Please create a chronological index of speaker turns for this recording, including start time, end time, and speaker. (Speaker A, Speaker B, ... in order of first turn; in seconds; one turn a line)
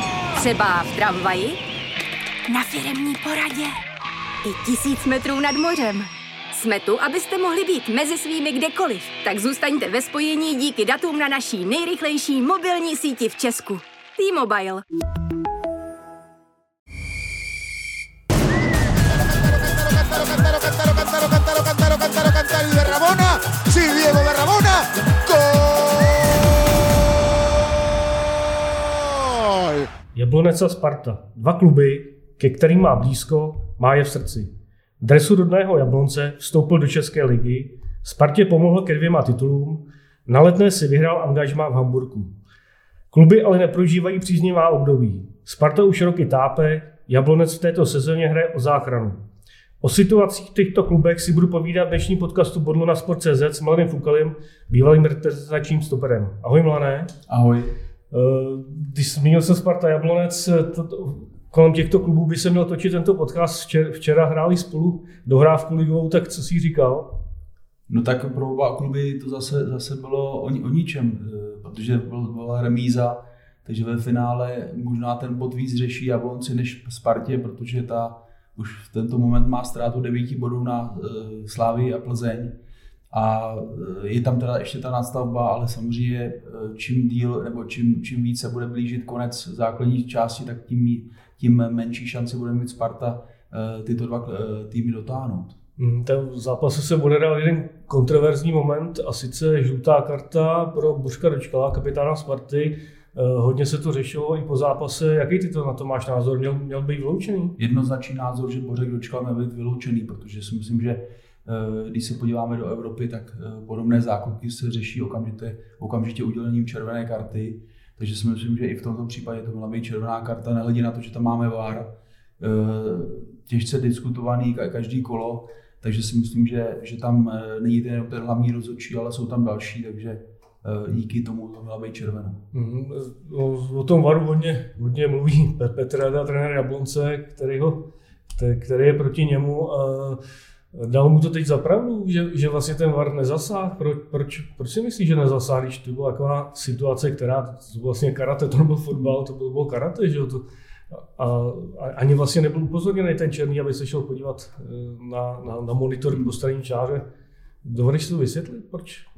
Speaker A: 0.3-1.6
Speaker A: 2.5-3.8
Speaker A: 4.4-14.8
Speaker A: 19.7-26.4
Speaker B: 30.1-42.3
Speaker B: 43.1-49.2
Speaker B: 49.8-57.1
Speaker C: 57.3-57.7
Speaker B: 58.1-67.1
Speaker C: 67.9-82.5
Speaker C: 83.1-95.5
Speaker B: 95.8-107.5
Speaker C: 107.6-121.9
Speaker C: 122.4-132.4
Speaker B: 132.5-137.8
Speaker B: 138.3-140.2
Speaker B: 140.7-157.0
Speaker B: 157.6-159.0